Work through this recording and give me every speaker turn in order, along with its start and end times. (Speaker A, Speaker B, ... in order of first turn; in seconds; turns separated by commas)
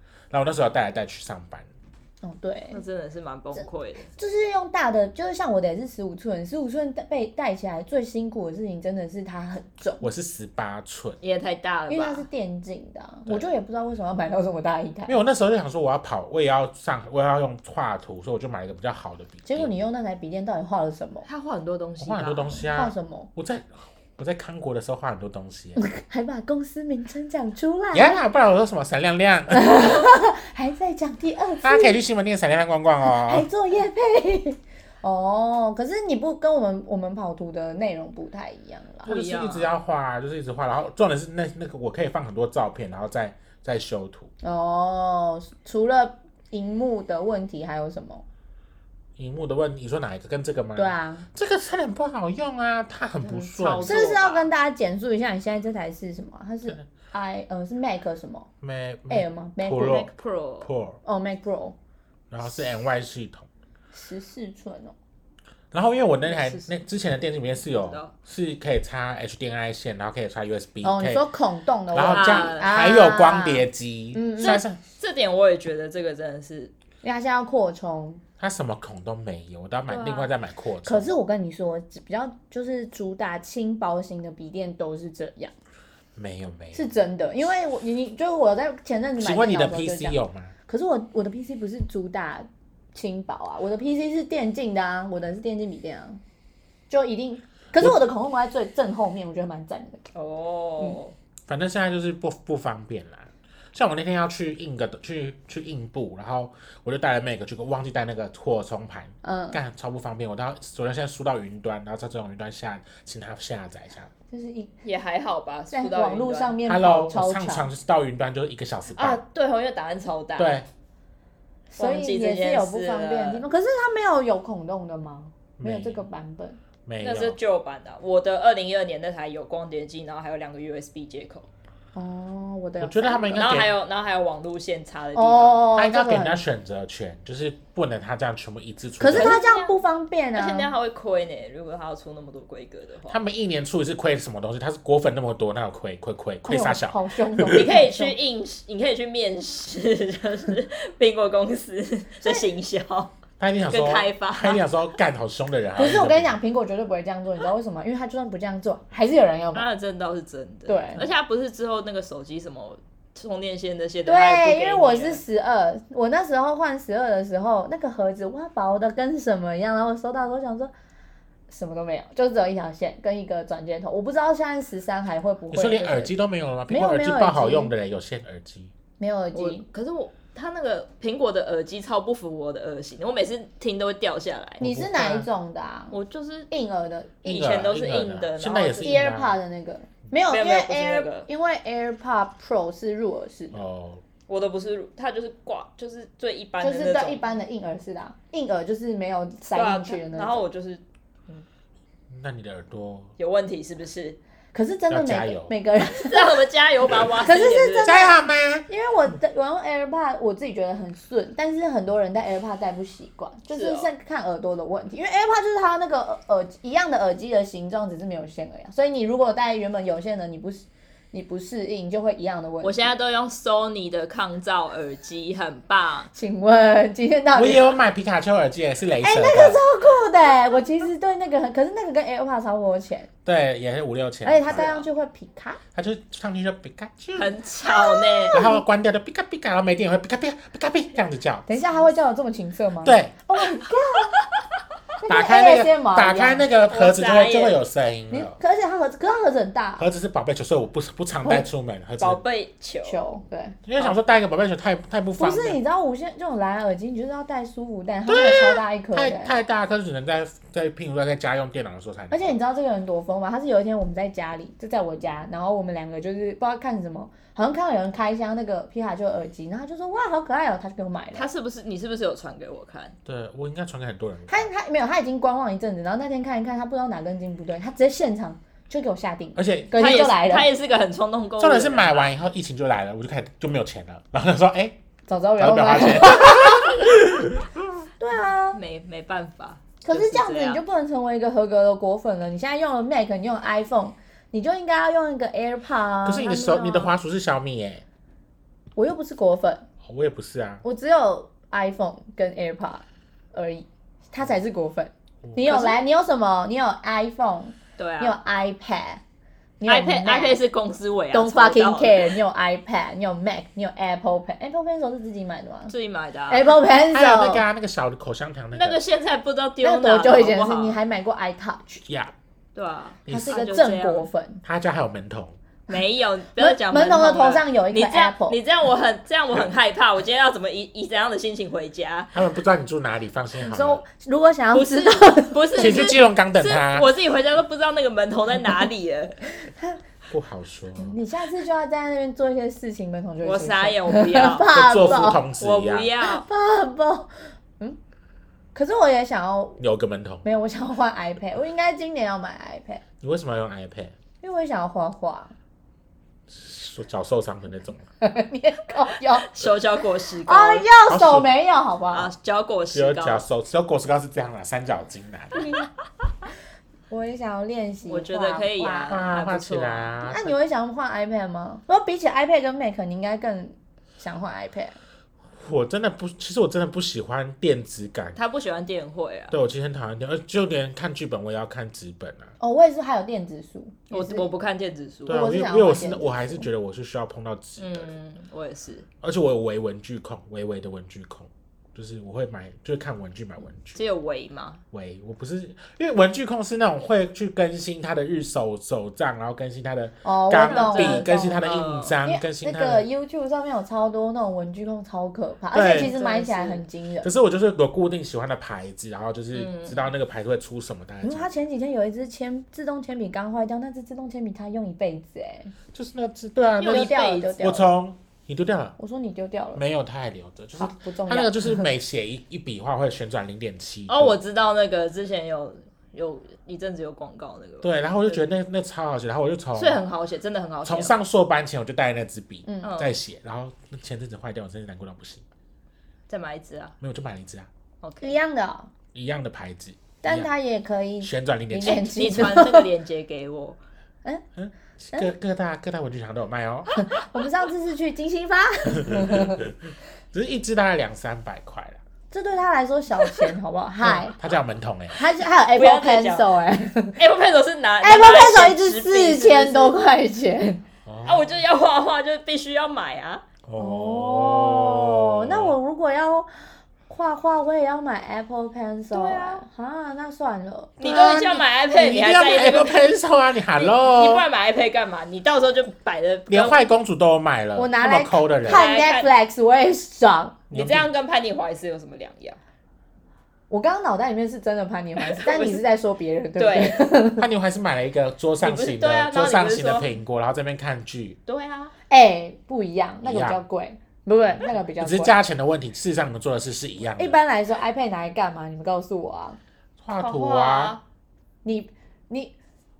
Speaker A: 0.3-1.7, Speaker B: 2.2-2.8, Speaker C: 2.7-4.1, Speaker B: 4.2-10.1, Speaker A: 10.0-11.2, Speaker C: 11.2-12.3, Speaker B: 11.9-15.2, Speaker A: 15.1-19.7, Speaker B: 19.4-21.2, Speaker C: 21.2-22.6, Speaker A: 22.0-25.8, Speaker B: 22.7-23.3, Speaker B: 25.8-28.2, Speaker A: 27.9-29.8, Speaker B: 29.5-32.0, Speaker A: 31.6-33.5, Speaker B: 33.2-39.1, Speaker C: 39.0-39.7, Speaker A: 39.0-44.3, Speaker B: 44.4-48.2, Speaker A: 49.2-54.0, Speaker B: 50.8-51.3, Speaker C: 53.2-54.5, Speaker B: 53.8-58.5, Speaker A: 58.6-61.0, Speaker B: 59.1-60.0, Speaker C: 59.8-60.7, Speaker B: 61.0-61.8, Speaker A: 62.3-63.5, Speaker B: 63.9-64.9, Speaker A: 65.7-71.2, Speaker C: 66.2-66.7, Speaker C: 67.6-68.1, Speaker B: 70.8-74.6, Speaker A: 71.9-74.8, Speaker C: 72.1-72.7, Speaker C: 74.4-76.7, Speaker B: 77.0-78.2, Speaker A: 78.4-81.1, Speaker C: 79.9-80.3, Speaker B: 80.8-85.5, Speaker A: 86.1-86.9, Speaker B: 86.7-96.2, Speaker A: 89.2-90.5, Speaker B: 96.9-100.0, Speaker C: 100.1-101.1, Speaker A: 101.5-114.1, Speaker B: 109.2-109.6, Speaker B: 114.3-114.7, Speaker C: 114.8-116.6, Speaker B: 115.7-117.7, Speaker A: 116.6-119.2, Speaker C: 118.9-120.6, Speaker A: 120.4-120.7, Speaker B: 121.7-126.6, Speaker C: 121.8-123.4, Speaker A: 125.6-126.0, Speaker A: 126.8-127.4, Speaker C: 127.0-131.5, Speaker B: 131.9-133.6, Speaker A: 132.8-133.7, Speaker C: 133.3-135.7, Speaker B: 135.1-136.4, Speaker A: 135.7-139.4, Speaker B: 139.0-140.7, Speaker C: 139.1-139.7, Speaker C: 140.3-143.2, Speaker A: 143.1-147.7, Speaker B: 146.4-148.1, Speaker C: 147.5-153.1, Speaker A: 153.4-156.4, Speaker C: 153.7-154.6, Speaker B: 155.8-159.7, Speaker C: 159.5-165.2, Speaker B: 160.7-161.1, Speaker B: 164.1-170.7, Speaker B: 171.5-176.1, Speaker A: 175.5-178.7, Speaker B: 176.7-177.7, Speaker B: 179.0-179.6, Speaker C: 179.3-184.6, Speaker A: 184.6-185.3, Speaker B: 184.6-185.9, Speaker C: 185.9-186.5, Speaker B: 186.5-187.3, Speaker C: 187.2-188.9, Speaker A: 187.2-189.4, Speaker B: 188.8-193.6, Speaker C: 190.3-191.3, Speaker A: 193.5-194.0, Speaker C: 194.3-197.2, Speaker B: 196.6-200.4, Speaker C: 199.4-201.4, Speaker A: 202.1-203.1, Speaker C: 203.2-204.2, Speaker B: 204.5-206.4, Speaker A: 204.9-205.5, Speaker C: 205.8-208.0, Speaker B: 207.2-208.2, Speaker A: 207.8-208.7, Speaker B: 208.7-222.9, Speaker C: 213.5-213.9, Speaker C: 222.6-226.1, Speaker B: 226.1-227.7, Speaker A: 227.3-229.6, Speaker B: 229.0-233.1, Speaker A: 233.2-234.8, Speaker B: 234.2-235.6, Speaker C: 234.5-234.8, Speaker A: 235.7-237.3, Speaker C: 237.2-238.4, Speaker B: 237.7-238.6, Speaker A: 238.3-241.5, Speaker B: 241.5-244.2, Speaker A: 242.8-243.1, Speaker B: 245.0-246.5, Speaker A: 245.1-248.3, Speaker C: 246.7-247.6, Speaker B: 248.1-249.9, Speaker A: 249.8-252.2, Speaker C: 252.0-253.0, Speaker B: 252.8-253.6, Speaker A: 253.7-255.6, Speaker B: 255.2-259.4, Speaker A: 258.1-262.4, Speaker B: 262.1-271.3, Speaker C: 271.1-273.0, Speaker A: 273.1-274.5, Speaker B: 274.3-280.5, Speaker A: 279.4-279.8, Speaker C: 279.7-282.1, Speaker A: 281.4-284.8, Speaker B: 285.1-286.9, Speaker A: 285.4-287.8, Speaker B: 288.0-288.6, Speaker C: 288.5-290.6, Speaker B: 289.8-296.9, Speaker A: 296.0-297.8, Speaker B: 298.8-299.6, Speaker A: 299.8-300.6, Speaker B: 300.6-309.0, Speaker A: 305.2-305.6, Speaker C: 305.5-305.8, Speaker C: 307.8-308.2, Speaker B: 309.6-310.4, Speaker C: 309.6-312.2, Speaker B: 311.1-315.7, Speaker C: 315.7-316.5, Speaker B: 316.3-317.4, Speaker A: 316.9-318.8, Speaker C: 318.5-320.8, Speaker B: 319.6-321.8, Speaker A: 321.9-322.1, Speaker C: 322.5-324.1, Speaker A: 323.1-323.4, Speaker B: 323.1-324.4, Speaker A: 324.4-325.4, Speaker C: 325.7-332.1, Speaker B: 326.4-328.4, Speaker A: 332.1-333.8, Speaker B: 333.4-335.9, Speaker C: 334.5-339.5, Speaker A: 335.6-336.9, Speaker A: 340.1-341.0, Speaker B: 340.8-345.2, Speaker C: 343.2-346.2, Speaker A: 344.5-345.9, Speaker B: 346.0-347.8, Speaker B: 348.5-349.6, Speaker A: 349.6-350.2, Speaker B: 350.2-352.8, Speaker A: 353.0-353.9, Speaker B: 354.2-355.3, Speaker A: 356.3-357.8, Speaker B: 358.0-359.3, Speaker C: 359.2-360.7, Speaker B: 360.2-362.1, Speaker A: 360.9-361.3, Speaker C: 361.9-363.2, Speaker A: 362.7-365.4, Speaker B: 365.4-365.7, Speaker B: 366.9-369.1, Speaker C: 367.9-370.1, Speaker A: 368.9-370.3, Speaker B: 370.1-374.8, Speaker A: 375.3-378.2, Speaker C: 378.1-379.4, Speaker A: 379.3-382.3, Speaker B: 382.4-384.3, Speaker C: 383.9-385.2, Speaker A: 385.1-387.9, Speaker B: 385.1-386.5, Speaker C: 387.6-388.9, Speaker A: 389.0-393.8, Speaker C: 393.8-394.6, Speaker A: 394.7-402.9, Speaker B: 400.0-401.4, Speaker C: 400.3-402.0, Speaker B: 402.0-407.1, Speaker A: 405.5-405.9, Speaker C: 405.6-406.6, Speaker A: 407.0-411.3, Speaker C: 409.3-409.9, Speaker B: 411.0-415.5, Speaker A: 415.7-418.7, Speaker C: 416.6-417.6, Speaker B: 416.7-417.7, Speaker B: 418.8-419.6, Speaker A: 419.5-424.2, Speaker B: 420.6-421.7, Speaker C: 423.9-428.2, Speaker A: 427.6-429.8, Speaker C: 429.6-430.9, Speaker A: 430.6-435.2, Speaker B: 432.5-432.8, Speaker C: 432.6-432.9, Speaker C: 436.1-436.8, Speaker A: 436.8-437.5, Speaker C: 437.8-438.2, Speaker B: 438.0-438.7, Speaker A: 438.9-440.3, Speaker B: 440.0-442.7, Speaker A: 441.0-442.4, Speaker C: 441.6-443.6, Speaker A: 444.4-446.9, Speaker B: 446.8-449.4, Speaker A: 448.7-451.8, Speaker B: 452.1-454.2, Speaker A: 453.8-455.0, Speaker B: 454.9-457.0, Speaker C: 455.5-456.3, Speaker C: 457.0-459.8, Speaker B: 457.8-460.6, Speaker A: 460.9-461.4, Speaker C: 461.0-463.2, Speaker A: 463.4-465.6, Speaker B: 463.6-466.3, Speaker B: 466.9-470.8, Speaker C: 468.9-469.4, Speaker A: 470.8-474.3, Speaker C: 470.8-472.9, Speaker C: 473.5-476.7, Speaker A: 476.3-478.6, Speaker B: 477.6-480.4, Speaker C: 478.4-479.1, Speaker A: 480.5-480.9, Speaker C: 480.5-482.4, Speaker B: 483.5-487.2, Speaker C: 485.0-485.6, Speaker C: 486.4-486.9, Speaker A: 487.2-491.2, Speaker C: 488.4-489.9, Speaker C: 491.3-491.7, Speaker B: 491.9-495.1, Speaker A: 493.0-493.4, Speaker A: 494.7-497.2, Speaker B: 497.0-499.4, Speaker A: 499.8-500.8, Speaker C: 499.9-500.8, Speaker B: 501.4-502.4